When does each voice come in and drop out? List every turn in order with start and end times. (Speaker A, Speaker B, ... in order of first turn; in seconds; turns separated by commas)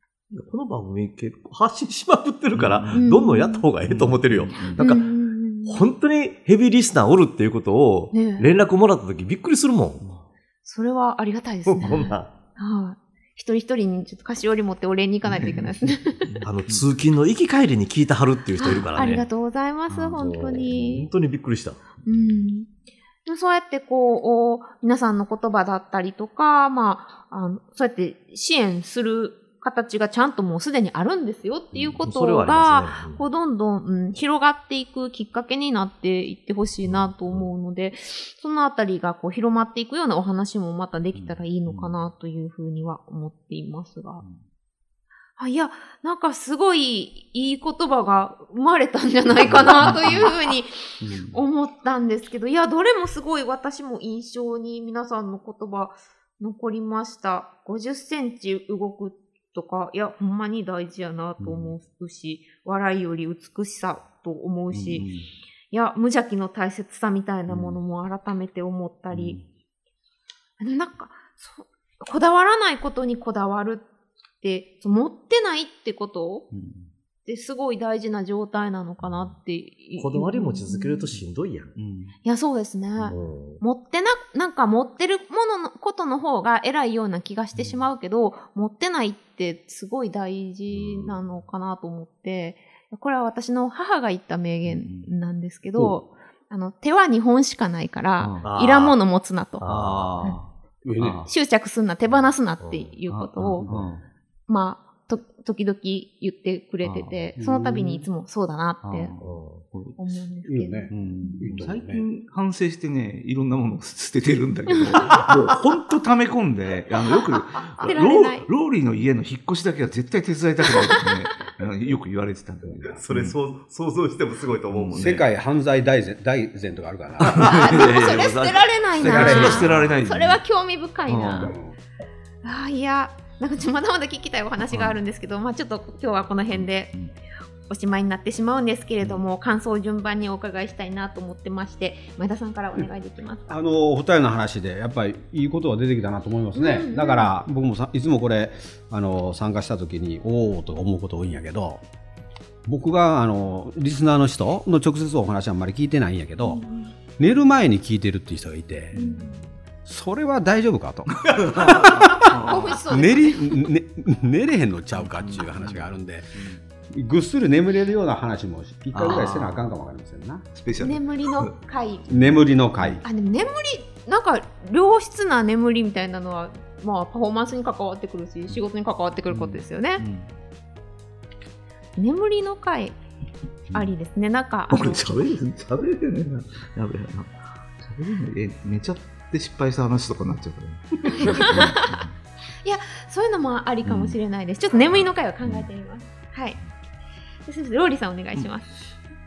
Speaker A: 0.3-10.1, Speaker B: 2.5-3.1, Speaker C: 2.9-3.6, Speaker B: 3.8-4.8, Speaker C: 4.8-5.9, Speaker C: 8.1-8.5, Speaker C: 10.6-16.3, Speaker A: 11.7-12.3, Speaker B: 15.2-16.9, Speaker A: 16.4-19.2, Speaker C: 18.6-21.1, Speaker B: 19.9-20.7, Speaker A: 20.1-21.9, Speaker B: 22.1-22.5, Speaker C: 22.1-22.7, Speaker C: 23.2-44.2, Speaker A: 32.0-33.2, Speaker B: 36.8-37.5, Speaker B: 41.1-41.9, Speaker C: 45.4-65.1, Speaker B: 49.3-50.3, Speaker B: 51.0-51.4, Speaker B: 61.4-61.8, Speaker B: 64.7-65.3, Speaker C: 65.7-69.4, Speaker B: 67.5-67.8, Speaker B: 69.1-69.4, Speaker C: 70.6-73.9, Speaker C: 74.4-76.5, Speaker B: 76.5-76.9, Speaker C: 77.2-81.2, Speaker B: 79.0-79.3, Speaker A: 80.0-81.7, Speaker B: 81.8-82.1, Speaker C: 82.2-99.7, Speaker A: 83.1-83.6, Speaker B: 87.5-87.8, Speaker B: 94.6-95.1, Speaker B: 98.2-98.5, Speaker A: 98.4-99.0, Speaker A: 99.6-100.2, Speaker B: 99.7-101.3, Speaker D: 100.8-101.2, Speaker C: 101.2-103.7, Speaker A: 102.6-102.9, Speaker B: 103.1-104.0, Speaker D: 103.6-104.0, Speaker C: 104.5-109.1, Speaker B: 106.8-107.2, Speaker D: 107.4-108.0, Speaker B: 108.8-110.0, Speaker A: 109.2-109.6, Speaker C: 109.9-111.5, Speaker D: 110.4-112.1, Speaker B: 110.9-123.4, Speaker C: 117.8-118.5, Speaker C: 120.7-121.3, Speaker A: 122.6-125.0, Speaker B: 124.7-125.3, Speaker D: 124.9-127.6, Speaker B: 127.2-130.4, Speaker C: 127.4-131.5, Speaker A: 127.8-128.1, Speaker D: 129.0-129.9, Speaker B: 131.1-131.5, Speaker D: 131.4-131.8, Speaker C: 132.4-136.9, Speaker B: 134.7-135.0, Speaker B: 136.5-137.1, Speaker C: 137.7-143.6, Speaker D: 143.5-151.8, Speaker C: 146.5-147.3, Speaker D: 152.7-156.6, Speaker C: 156.4-156.9, Speaker D: 157.2-158.9, Speaker B: 158.9-159.3, Speaker C: 158.9-159.3, Speaker D: 159.8-170.5, Speaker B: 161.5-162.8, Speaker C: 162.4-163.6, Speaker B: 164.9-166.6, Speaker B: 168.9-169.7, Speaker B: 170.5-171.5, Speaker C: 170.8-172.0, Speaker D: 172.1-173.0, Speaker B: 172.1-173.0, Speaker C: 173.0-180.0, Speaker B: 179.3-180.3, Speaker C: 182.0-183.0, Speaker C: 183.7-185.1, Speaker B: 184.7-192.2, Speaker C: 191.1-192.0, Speaker C: 192.6-196.6, Speaker B: 193.8-194.2, Speaker B: 194.9-195.7, Speaker C: 197.4-198.7